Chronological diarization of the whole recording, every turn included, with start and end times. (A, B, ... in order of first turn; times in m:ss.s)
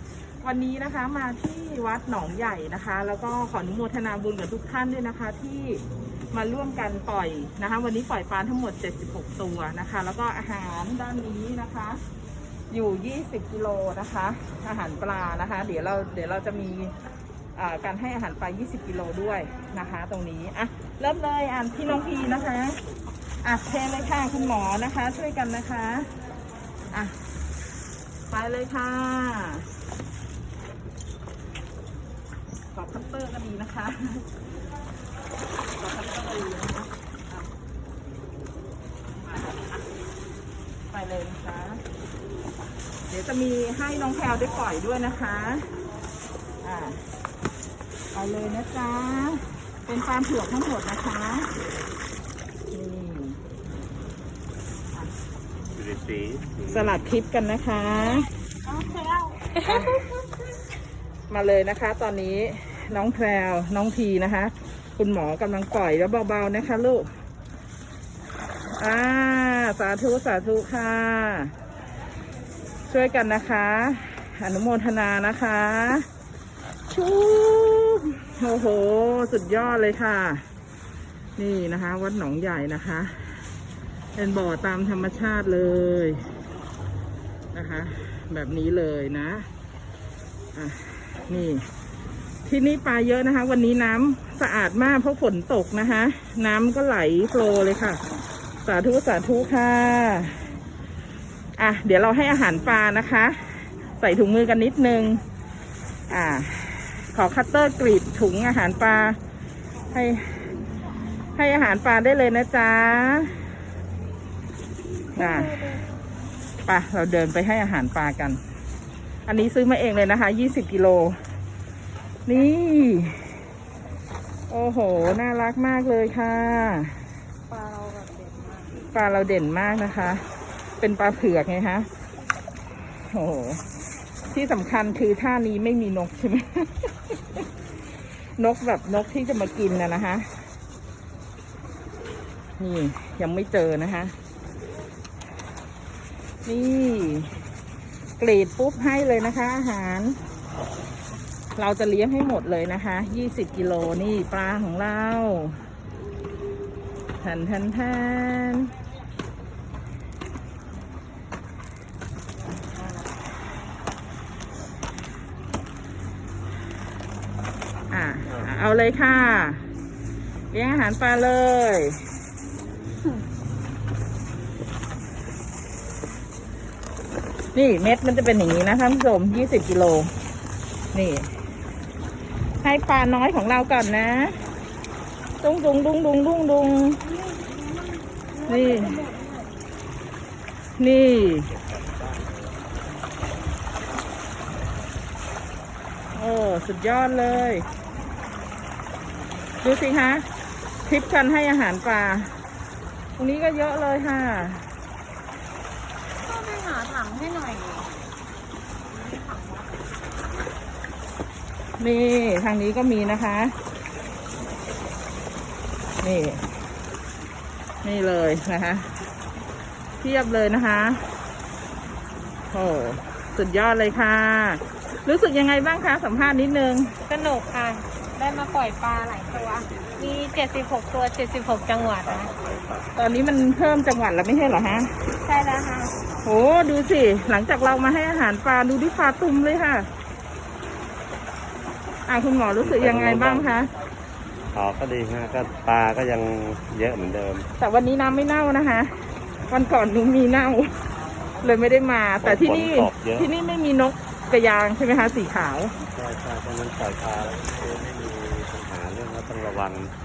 0:00.4-0:12.0 A
0:12.7-0:16.9 A
0:17.6-0:22.8 A
0:23.4-0:26.1 A
0:26.9-0:27.2 A
0:28.3-0:29.7 A
0:32.7-0:34.2 A
0:35.8-0:37.5 A
0:39.2-0:39.8 A
0:40.9-0:41.8 A
0:43.1-0:45.7 A
0:46.6-0:47.0 A
0:48.1-0:51.5 A
0:52.7-0:53.4 A
0:55.7-0:57.0 B
0:56.7-0:58.3 A
0:58.6-1:00.0 C
0:59.6-1:00.1 A
1:01.3-1:07.1 A
1:08.7-1:11.5 A
1:12.9-1:16.0 A
1:16.9-1:20.4 A
1:21.4-1:23.2 A
1:24.2-1:26.2 A
1:27.5-1:29.5 A
1:30.5-1:31.7 A
1:32.4-1:38.0 A
1:38.6-1:40.4 A
1:41.6-1:45.2 A
1:46.1-1:49.2 A
1:49.9-1:50.5 A
1:51.3-1:53.4 A
1:55.2-1:55.5 A
1:55.2-1:55.8 C
1:56.6-1:58.4 A
1:59.3-2:01.2 A
2:02.2-2:03.3 A
2:04.5-2:07.0 A
2:07.5-2:08.9 C
2:08.9-2:10.2 A
2:10.8-2:11.9 A
2:13.1-2:13.6 A
2:14.3-2:17.4 A
2:18.4-2:20.3 A
2:22.6-2:24.1 A
2:26.4-2:27.4 A
2:28.2-2:30.2 A
2:31.6-2:35.6 A
2:37.2-2:38.7 A
2:47.9-2:49.6 A
2:50.5-2:52.0 A
2:57.5-3:00.1 A
3:00.9-3:01.3 A
3:02.6-3:04.4 A
3:05.4-3:07.0 A
3:07.0-3:09.5 C
3:08.5-3:09.0 A
3:10.8-3:11.5 A
3:11.2-3:12.7 B
3:16.1-3:17.6 A
3:19.6-3:20.2 A
3:20.8-3:22.4 A
3:23.2-3:24.6 A
3:26.2-3:28.0 C
3:28.9-3:29.8 C
3:31.8-3:33.6 A
3:36.0-3:36.4 A
3:37.8-3:38.9 A
3:40.0-3:41.0 A
3:42.5-3:47.0 A
3:47.1-3:52.4 C
3:49.4-3:50.1 B
3:52.0-3:52.9 B
3:52.9-3:54.9 A
3:55.2-3:56.0 C
3:56.2-3:59.9 A
4:02.0-4:03.7 A
4:02.6-4:03.5 B
4:04.5-4:07.5 B
4:07.6-4:10.8 A
4:11.4-4:15.7 A
4:12.2-4:13.3 B
4:15.9-4:19.9 B